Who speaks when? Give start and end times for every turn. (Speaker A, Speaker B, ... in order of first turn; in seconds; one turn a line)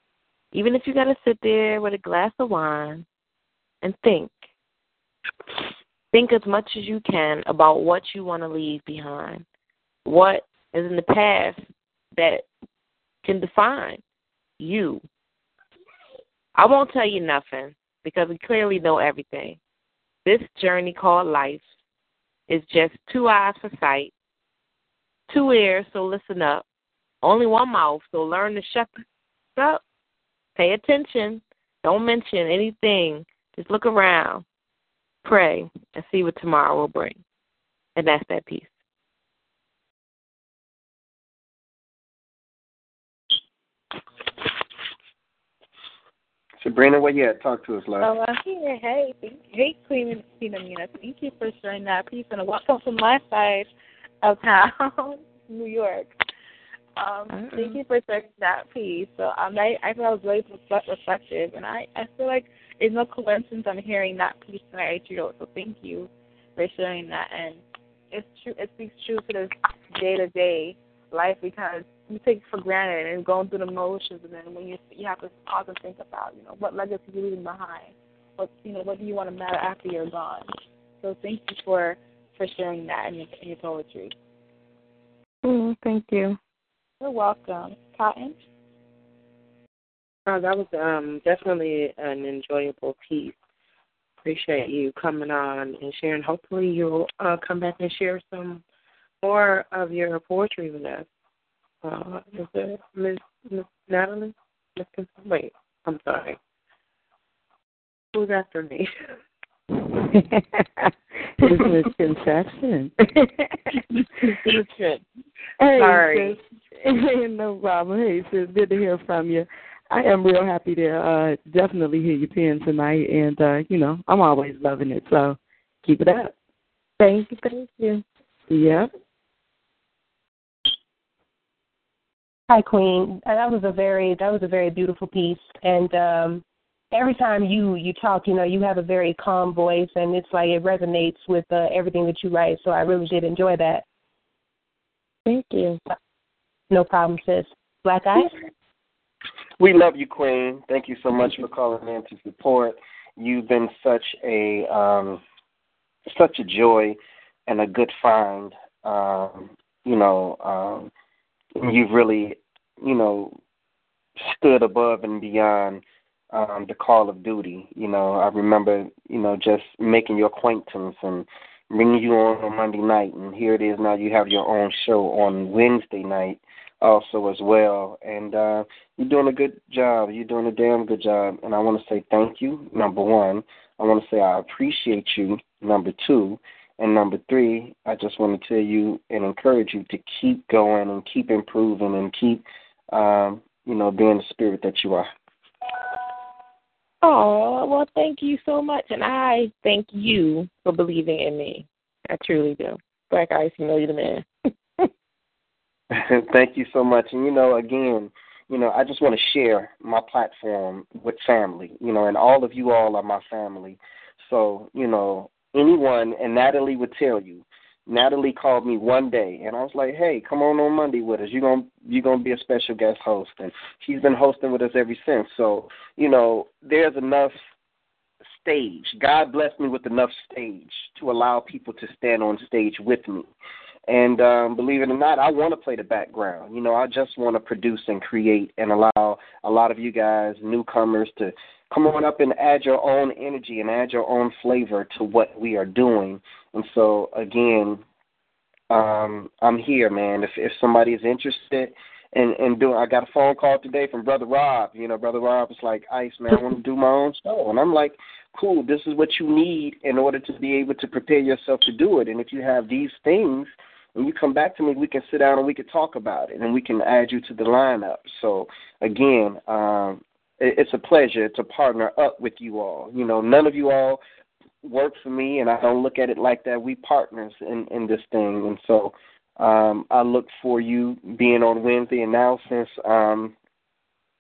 Speaker A: 0.5-3.1
Speaker A: 3.8-4.5
Speaker A: 6.1-9.4
Speaker A: 10.1-11.6
Speaker A: 12.2-12.4
Speaker A: 13.2-14.0
Speaker A: 14.6-15.0
Speaker A: 16.6-19.6
Speaker A: 20.2-21.6
Speaker A: 22.5-24.1
Speaker A: 25.3-26.6
Speaker A: 27.2-29.0
Speaker A: 29.6-29.8
Speaker A: 30.6-34.4
Speaker A: 35.2-37.2
Speaker A: 38.0-38.7
Speaker B: 46.6-48.1
Speaker C: 48.0-53.7
Speaker C: 54.2-56.1
Speaker C: 57.0-80.5
Speaker C: 81.0-84.1
Speaker A: 85.4-86.4
Speaker C: 87.0-88.4
Speaker D: 90.3-93.3
Speaker D: 94.2-98.6
Speaker D: 99.2-101.1
Speaker D: 101.8-106.4
Speaker D: 108.1-108.9
Speaker E: 110.0-113.4
Speaker A: 114.5-115.0
Speaker E: 115.6-126.3
Speaker D: 115.8-116.4
Speaker A: 127.0-128.0
Speaker E: 128.5-128.9
Speaker F: 132.5-143.8
Speaker A: 145.3-145.8
Speaker F: 146.7-148.3
Speaker B: 149.6-155.2
Speaker B: 156.1-157.0
Speaker B: 157.5-160.9
Speaker B: 161.6-163.4
Speaker B: 164.2-195.1
Speaker A: 197.0-204.3
Speaker B: 205.9-227.3
Speaker B: 228.4-233.3
Speaker B: 233.9-247.8
Speaker B: 248.7-274.0
Speaker B: 274.6-283.4